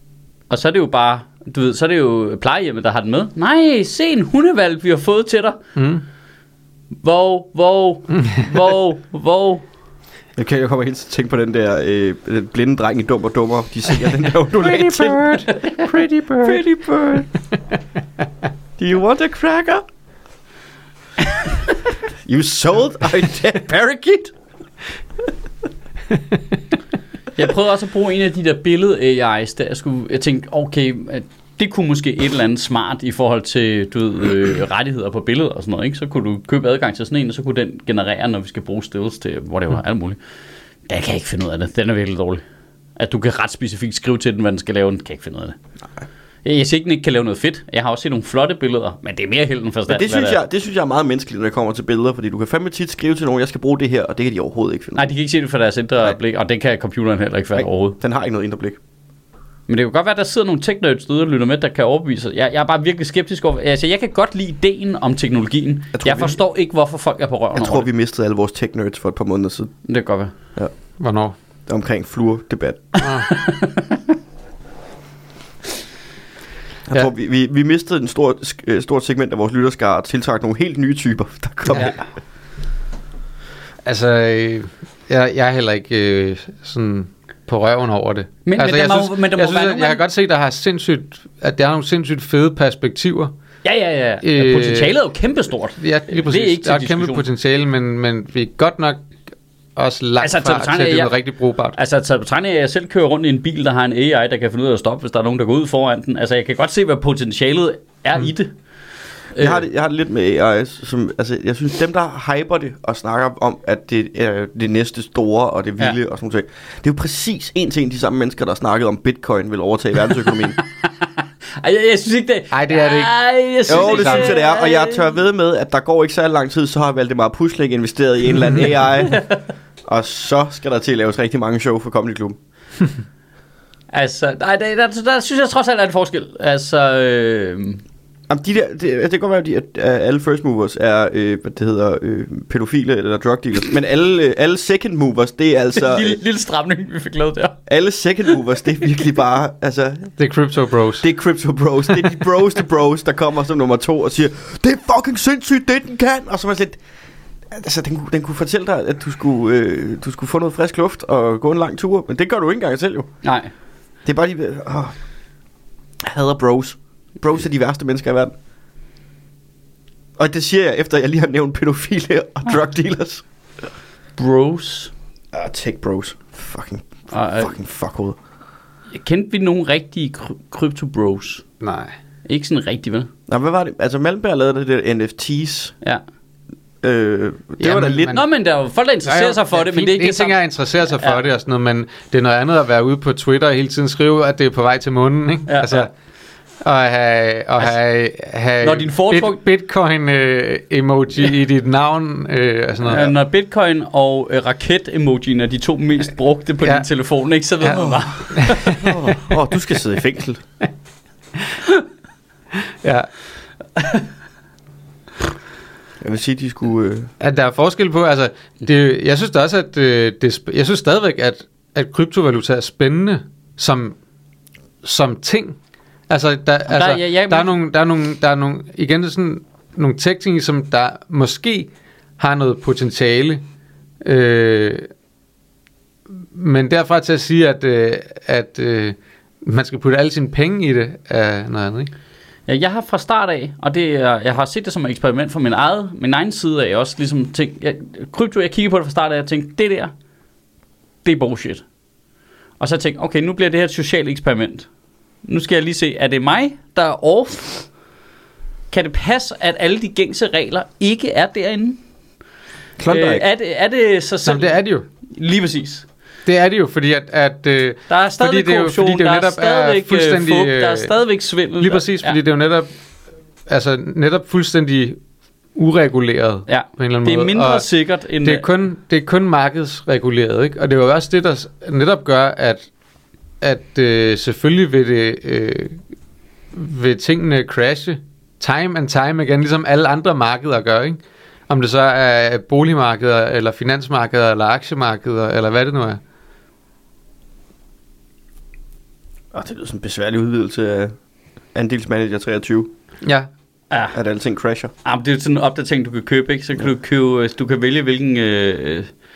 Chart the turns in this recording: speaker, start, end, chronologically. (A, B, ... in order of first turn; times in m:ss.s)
0:00.5-0:05.6 A
0:05.8-0:06.0 B
0:07.0-0:09.6 A
0:10.4-0:17.3 C
0:14.6-0:16.6 B
0:18.8-0:19.8 C
0:22.2-0:24.3 C
0:27.4-0:40.2 A
0:40.9-0:42.4 A
0:43.0-0:45.6 A
0:46.4-0:50.4 A
0:49.9-0:55.1 C
0:55.0-0:58.0 A
0:57.6-0:58.8 C
0:59.7-1:07.9 A
1:06.0-1:06.4 C
1:07.6-1:09.7 C
1:09.8-1:10.3 A
1:11.0-1:11.3 B
1:11.7-1:13.1 C
1:13.1-1:14.0 A
1:16.9-1:22.0 C
1:23.8-1:33.3 B
1:28.5-1:30.0 A
1:33.6-1:37.2 A
1:34.2-1:35.0 B
1:35.8-1:39.0 B
1:39.8-1:41.8 B
1:40.2-1:41.1 A
1:41.8-1:48.5 A
1:49.4-1:49.6 A
1:49.4-2:00.6 C
2:00.8-2:05.0 A
2:02.5-2:03.1 B
2:03.7-2:04.4 B
2:03.7-2:09.2 C
2:09.0-2:09.4 A
2:09.9-2:12.4 C
2:13.9-2:17.8 A
2:18.3-2:26.2 C
2:25.8-2:27.6 A
2:27.7-2:30.1 C
2:30.2-2:31.1 B
2:31.0-2:36.8 C
2:37.5-2:43.1 C
2:43.2-2:43.5 A
2:44.0-2:44.9 C
2:46.0-2:48.3 C
2:50.2-2:53.2 C
2:54.2-2:54.9 A
2:55.3-2:58.2 C
2:57.1-2:57.5 A
2:58.9-3:01.4 A
3:01.6-3:02.0 B
3:02.3-3:03.1 A
3:03.3-3:05.7 C
3:06.8-3:08.2 C
3:07.6-3:08.3 B
3:08.1-3:10.4 A
3:09.0-3:15.9 B
3:15.5-3:15.9 A
3:16.6-3:23.1 B
3:18.6-3:19.4 A
3:22.8-3:28.9 A
3:27.6-3:29.0 B
3:27.7-3:30.4 C
3:32.8-3:33.1 B
3:33.8-3:34.0 A
3:36.0-3:37.1 C
3:37.2-3:44.0 B
3:44.8-3:45.6 B
3:46.1-3:53.4 B
3:46.7-3:47.6 A
3:54.0-3:54.9 B
3:56.2-4:01.9 B
4:02.5-4:09.9 A
4:11.0-4:11.6 A
4:12.6-4:14.7 A
4:15.2-4:17.7 A
4:18.7-4:21.8 A
4:22.8-4:23.2 C
4:22.9-4:24.6 A
4:24.3-4:24.9 B
4:25.1-4:25.9 A
4:26.3-4:30.9 B
4:27.9-4:32.2 A
4:31.6-4:32.7 B
4:33.5-4:35.0 B
4:35.6-4:37.7 B
4:36.5-4:38.4 A
4:38.2-4:42.7 B
4:43.4-4:45.8 B
4:46.5-4:56.0 B
4:59.3-5:00.9 C
5:01.6-5:02.7 C
5:03.0-5:03.3 B
5:03.7-5:04.0 A
5:03.9-5:04.7 C
5:04.8-5:08.9 A